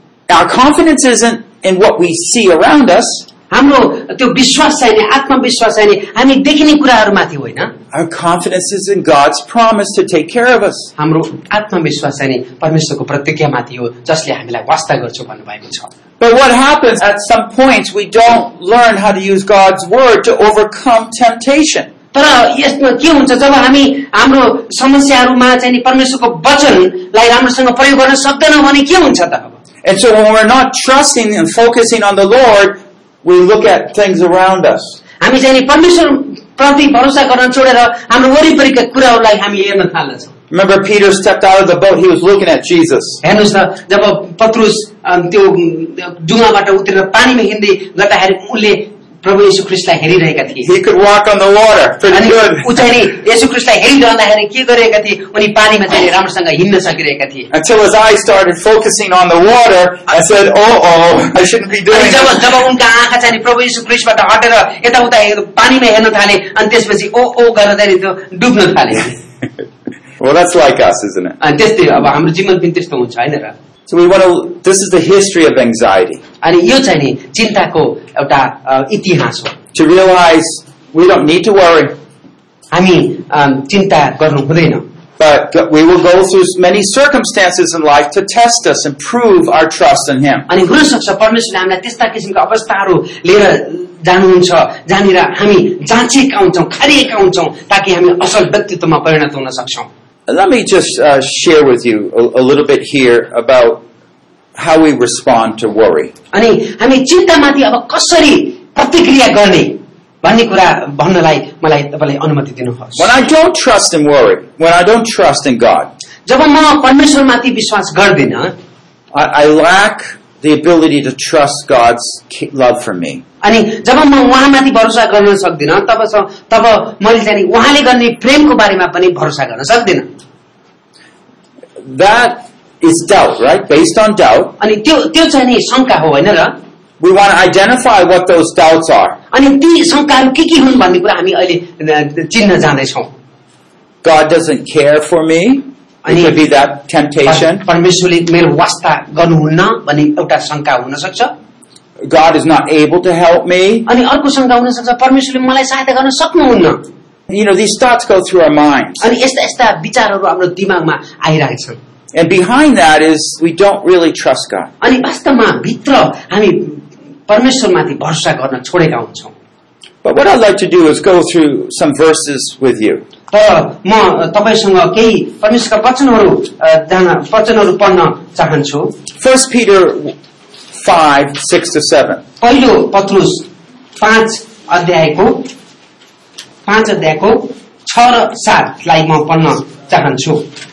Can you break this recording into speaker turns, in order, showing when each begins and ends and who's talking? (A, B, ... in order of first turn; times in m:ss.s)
0:00.3-0:03.2 A
0:03.5-0:07.7 B
0:07.9-0:10.9 A
0:11.0-0:15.9 B
0:16.2-0:21.9 A
0:22.1-0:29.6 B
0:29.8-0:35.0 A
0:35.2-0:40.3 B
0:40.5-0:43.2 A
0:43.2-0:50.7 B
0:50.6-0:52.8 A
0:52.1-0:57.5 B
0:57.5-1:02.5 A
1:01.9-1:09.2 B
1:10.2-1:11.4 A
1:11.4-1:13.5 B
1:13.9-1:16.2 A
1:16.4-1:19.6 B
1:19.7-1:22.0 A
1:22.7-1:24.8 B
1:25.2-1:30.5 A
1:30.5-1:39.9 B
1:40.3-1:43.8 A
1:44.5-1:46.1 A
1:46.3-1:53.1 B
1:53.0-1:55.9 A
1:56.3-1:58.5 B
1:59.1-2:03.2 A
2:03.4-2:10.1 B
2:11.8-2:14.6 A
2:14.6-2:16.6 B
2:17.0-2:19.2 A
2:19.3-2:23.1 B
2:24.0-2:27.6 A
2:26.0-2:26.4 B
2:27.2-2:31.3 B
2:32.0-2:33.8 A
2:33.8-2:36.8 B
2:37.3-2:39.0 A
2:39.0-2:41.8 B
2:42.1-2:44.7 A
2:44.8-2:49.3 B
2:50.0-2:53.0 A
2:53.3-2:58.9 B
2:59.2-3:00.1 A
3:00.7-3:02.2 A
3:02.4-3:03.5 B
3:04.0-3:05.5 B
3:06.6-3:10.5 B